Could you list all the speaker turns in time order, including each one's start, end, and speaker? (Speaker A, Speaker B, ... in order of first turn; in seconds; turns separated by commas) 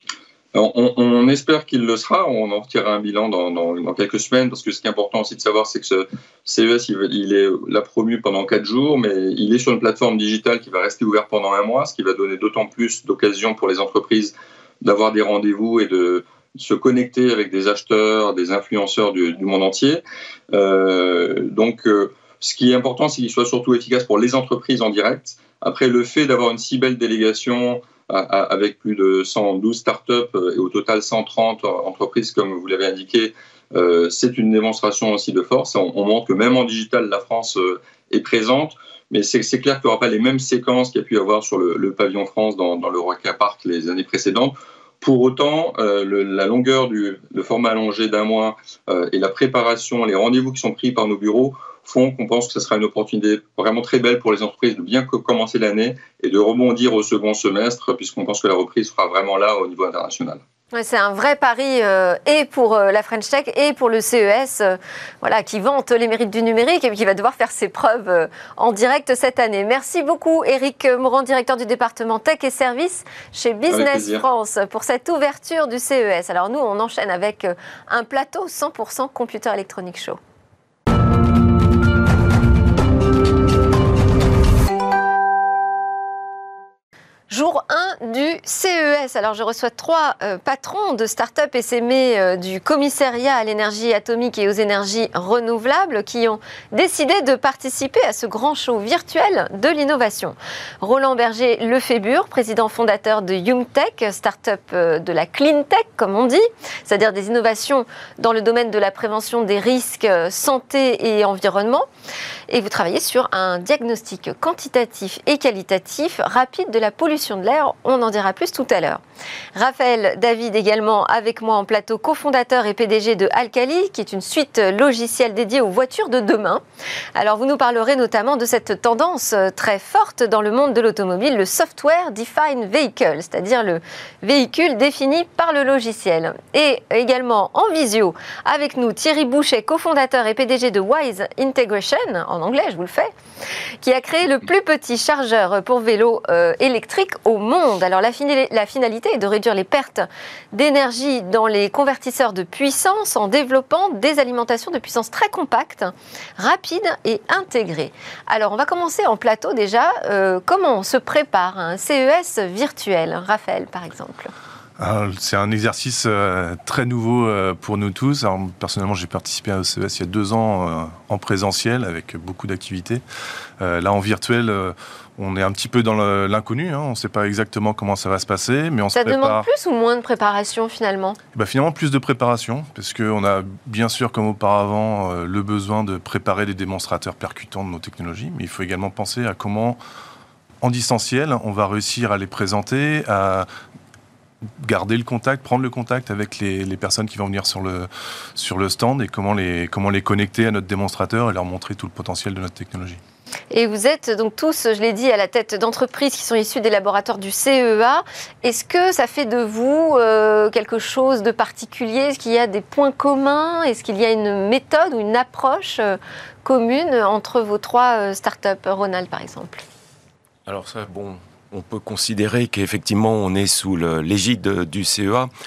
Speaker A: 0.5-20.0, Speaker A: 20.5-60.4, Speaker B: 60.7-80.2, Speaker A: 73.7-74.2, Speaker B: 87.3-111.9, Speaker B: 112.5-119.0, Speaker B: 119.5-126.6, Speaker B: 127.1-143.1, Speaker B: 143.8-164.3, Speaker C: 164.8-173.0, Speaker C: 173.6-179.4, Speaker B: 178.9-181.2, Speaker C: 181.3-189.8, Speaker C: 190.6-193.5, Speaker C: 194.6-203.0, Speaker B: 203.5-219.6, Speaker D: 220.4-225.3